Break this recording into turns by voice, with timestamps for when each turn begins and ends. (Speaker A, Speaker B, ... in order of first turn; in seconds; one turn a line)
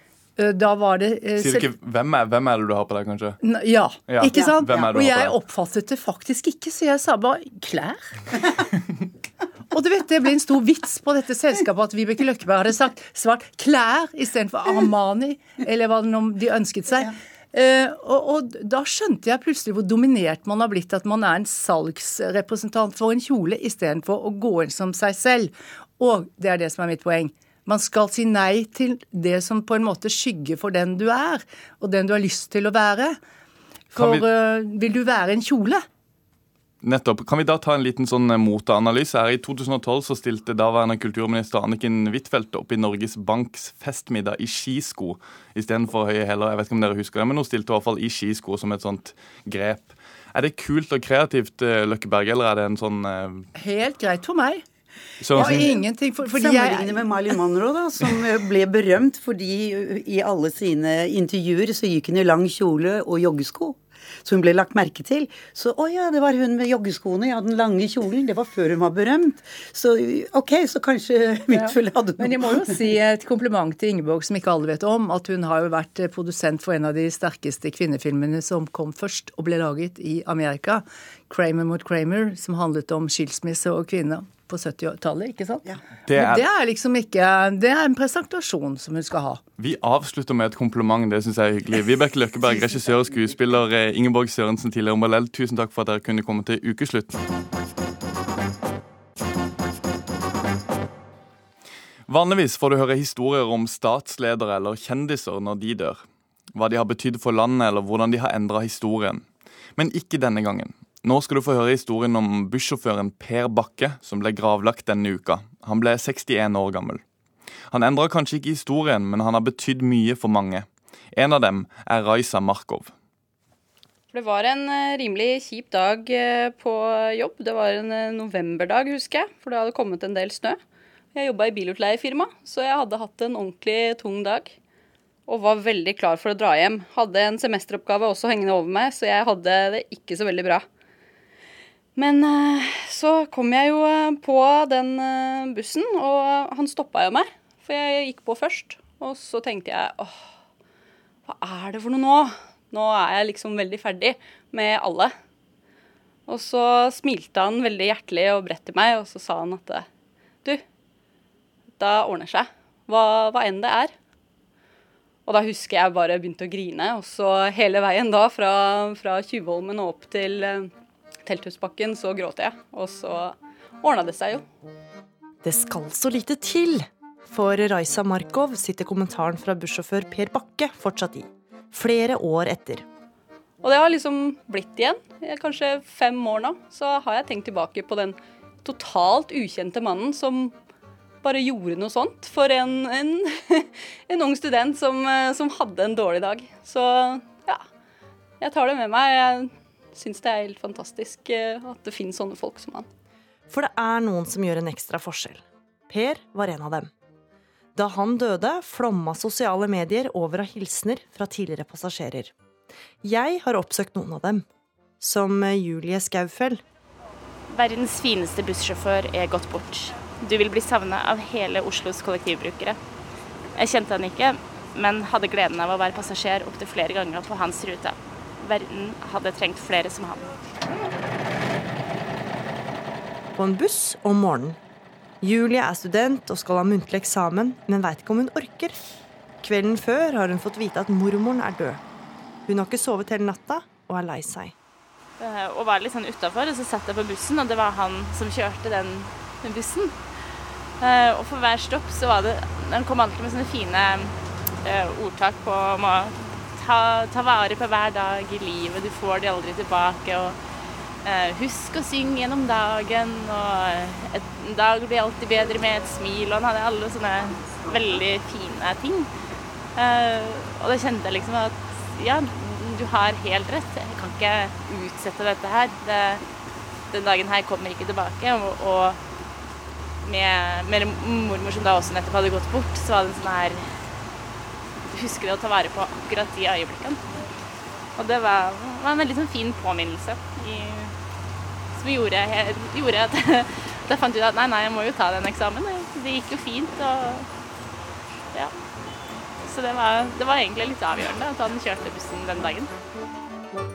Speaker A: 0.4-1.7
Speaker B: 1.4-3.4
Speaker A: 3.4-8.1
Speaker B: 4.1-5.4
Speaker A: 9.7-33.2
Speaker B: 33.9-34.3
Speaker A: 33.9-35.8
Speaker B: 36.8-53.5
Speaker A: 53.5-54.6
Speaker B: 55.2-55.7
Speaker A: 55.3-57.1
Speaker C: 55.4-72.9
Speaker A: 71.5-85.6
Speaker B: 86.1-86.4
Speaker A: 86.1-89.4
Speaker B: 89.6-97.1
Speaker B: 102.1-106.0
Speaker B: 106.5-109.2
Speaker B: 109.8-117.0
Speaker B: 117.7-122.9
Speaker D: 124.1-130.6
Speaker D: 131.1-134.5
Speaker D: 135.3-140.7
Speaker D: 141.9-150.2
Speaker D: 151.3-155.1
Speaker D: 156.3-159.9
Speaker D: 161.8-163.9
Speaker D: 165.3-170.7
Speaker D: 171.2-174.4
Speaker E: 175.4-182.8
Speaker D: 183.6-190.5
Speaker D: 191.2-197.6
Speaker D: 198.4-202.9
Speaker E: 203.5-206.9
Speaker E: 207.7-212.3
Speaker E: 213.0-214.4
Speaker E: 215.0-216.6
Speaker F: 217.5-222.8
Speaker F: 223.6-230.3
Speaker E: 233.3-234.6
Speaker E: 235.2-238.8
Speaker E: 239.4-241.8
Speaker E: 242.5-244.5
Speaker F: 245.2-250.0
Speaker F: 250.8-260.4
Speaker F: 261.0-269.1
Speaker F: 269.8-276.2
Speaker F: 276.9-279.0
Speaker F: 280.0-283.7
Speaker F: 284.9-287.0
Speaker F: 288.0-290.9
Speaker F: 291.8-297.3
Speaker F: 299.4-302.7